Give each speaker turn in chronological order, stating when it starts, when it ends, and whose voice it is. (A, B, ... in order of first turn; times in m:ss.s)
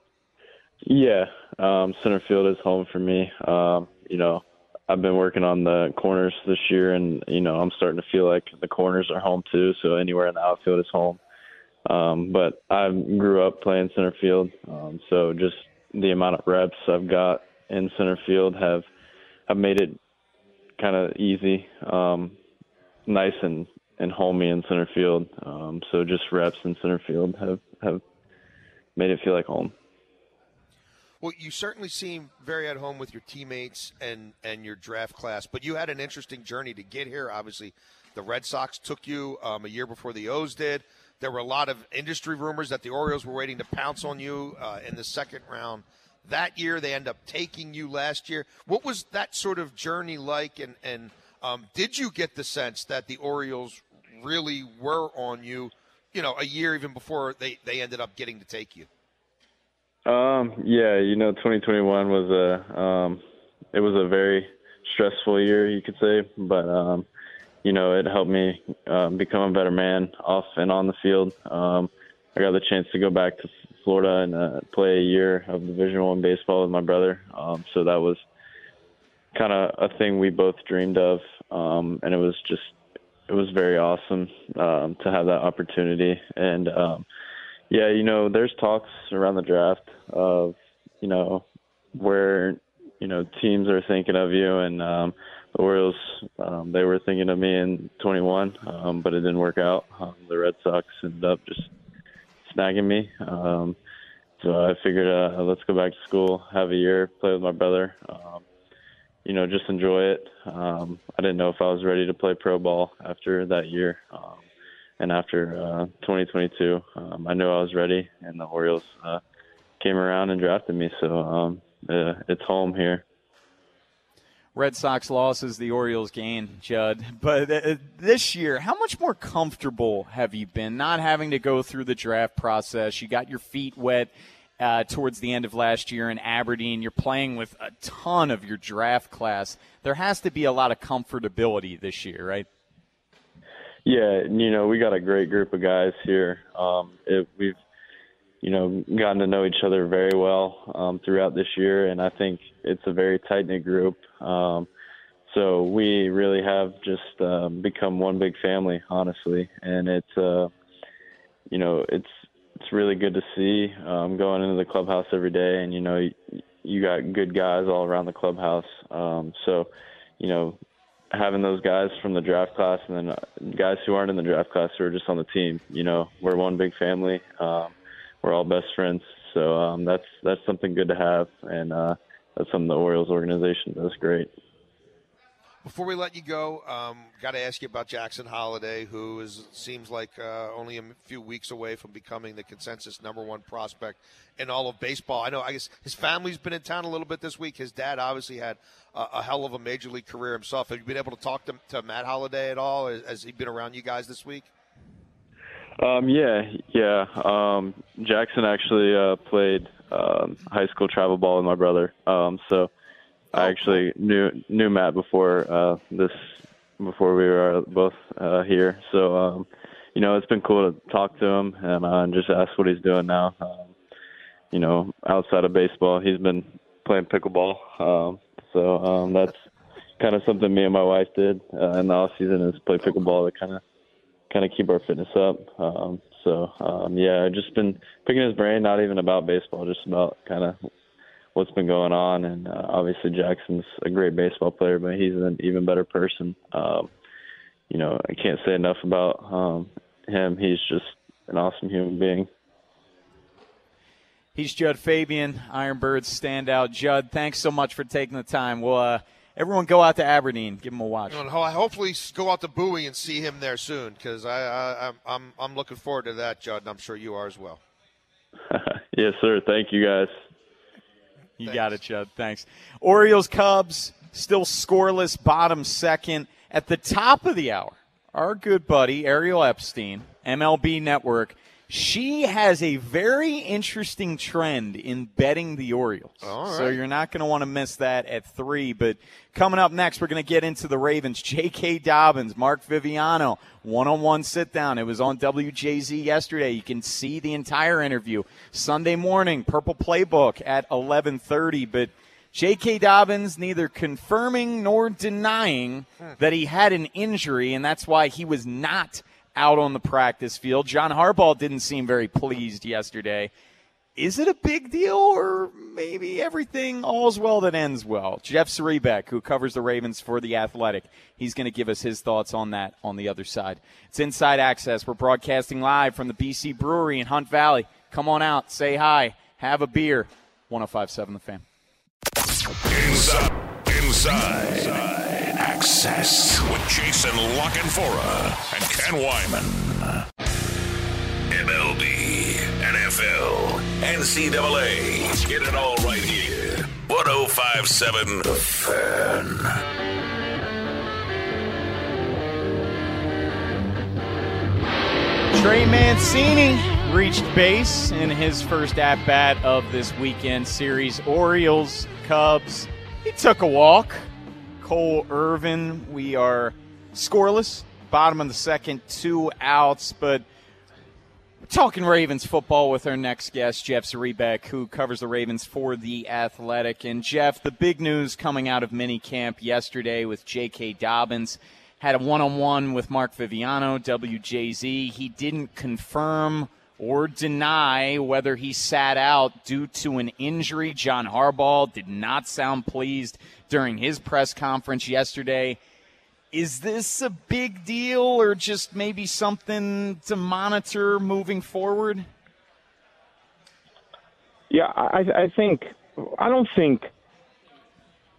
0:00.8-0:11.2 A
0:11.8-0:18.8 A
0:19.5-0:20.0 A
0:20.8-0:22.4 A
0:23.1-0:28.0 A
0:29.0-0:29.7 A
0:31.2-0:58.9 B
1:00.0-1:03.2 A
1:03.7-1:07.1 A
1:07.6-1:18.2 A
1:19.3-1:22.7 A
1:23.3-1:27.0 A
1:27.7-1:41.7 A
1:42.4-1:43.8 A
1:44.4-1:48.4 A
1:49.2-1:54.4 A
1:55.0-1:59.2 A
1:59.8-2:03.0 A
2:04.5-2:22.5 C
2:23.8-2:27.6 A
2:28.4-2:34.7 A
2:35.3-2:40.5 A
2:41.5-2:50.6 A
2:51.1-3:04.3 A
3:05.6-3:24.5 B
3:25.8-3:32.7 A
3:33.3-3:33.8 B
3:33.3-3:36.2 A
3:36.8-3:43.7 A
3:44.5-3:49.4 A
3:50.0-3:53.6 A
3:54.3-4:00.6 A
4:01.3-4:06.9 A
4:07.7-4:12.3 A
4:14.3-4:21.2 C
4:21.1-4:27.6 B
4:28.5-4:30.1 A
4:31.4-5:13.3 C
4:31.4-4:31.7 B
4:46.2-4:46.8 B
5:14.0-5:31.4 C
5:32.7-5:40.0 D
5:41.3-5:49.6 D
5:55.3-6:04.1 C
6:04.6-6:10.2 C
6:11.4-6:35.6 C
6:36.3-6:42.0 C
6:44.5-6:46.9 E